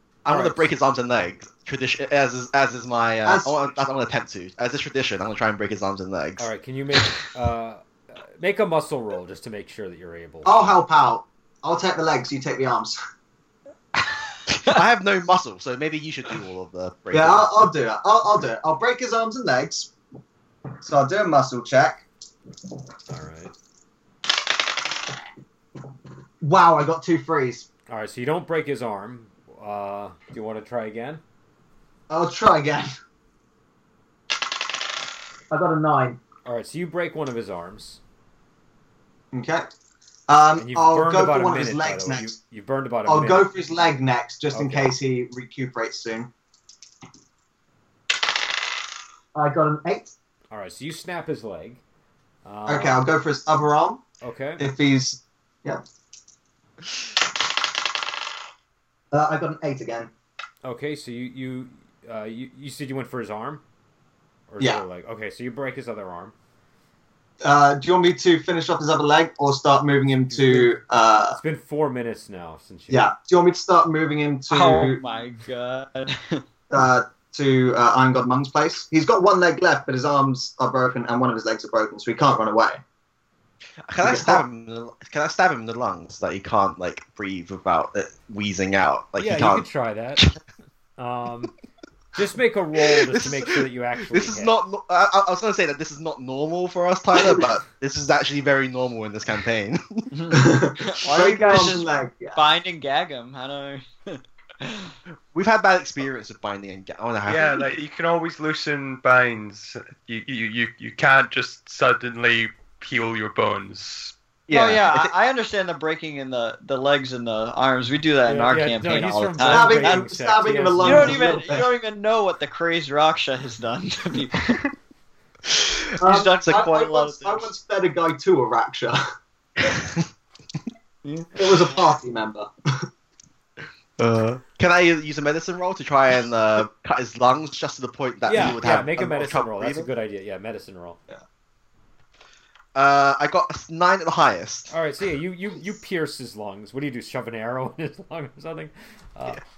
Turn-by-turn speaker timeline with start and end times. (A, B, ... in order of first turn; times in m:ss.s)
0:00.2-0:06.5 A
0:00.3-0:00.6 B
0:03.2-0:03.6 C
0:06.4-0:10.7 B
0:10.4-0:13.0 C
0:14.5-0:17.6 A
0:17.1-0:19.9 C
0:20.8-0:22.0 C
0:23.1-0:23.5 B
0:26.4-0:27.7 C
0:27.9-0:31.2 B
0:32.1-0:32.9 C
0:35.5-0:36.2 C
0:36.4-0:38.0 B
0:39.3-0:39.7 C
0:40.3-0:42.3 C
0:40.6-0:43.5 B
0:43.1-0:46.3 C
0:44.5-0:44.9 B
0:49.3-0:50.1 C
0:50.5-0:51.8 B
0:52.4-0:53.0 B
0:52.7-0:54.0 C
0:54.2-0:54.6 B
0:54.6-0:55.8 C
0:59.1-1:00.1 C
1:00.6-1:03.6 B
1:04.5-1:06.3 B
1:07.4-1:11.4 C
1:10.3-1:10.7 B
1:11.3-1:13.1 B
1:12.9-1:15.0 C
1:14.5-1:16.4 D
1:16.7-1:22.8 C
1:23.9-1:29.7 A
1:24.0-1:24.4 C
1:29.2-1:30.3 B
1:31.0-1:31.5 B
1:32.1-1:34.5 B
1:32.8-1:40.1 A
1:40.1-1:44.9 D
1:40.3-1:42.4 C
1:45.3-1:47.6 A
1:47.3-1:54.1 E
1:54.5-1:55.1 A
1:54.5-2:00.1 D
1:58.2-2:01.4 B
1:59.4-2:01.7 C
2:00.8-2:04.7 D
2:05.5-2:05.8 A
2:06.0-2:09.0 C
2:06.0-2:07.5 D
2:11.0-2:11.6 D
2:11.4-2:12.8 C
2:14.0-2:19.9 A
2:18.2-2:21.0 B
2:22.7-2:24.7 A
2:24.7-2:29.4 B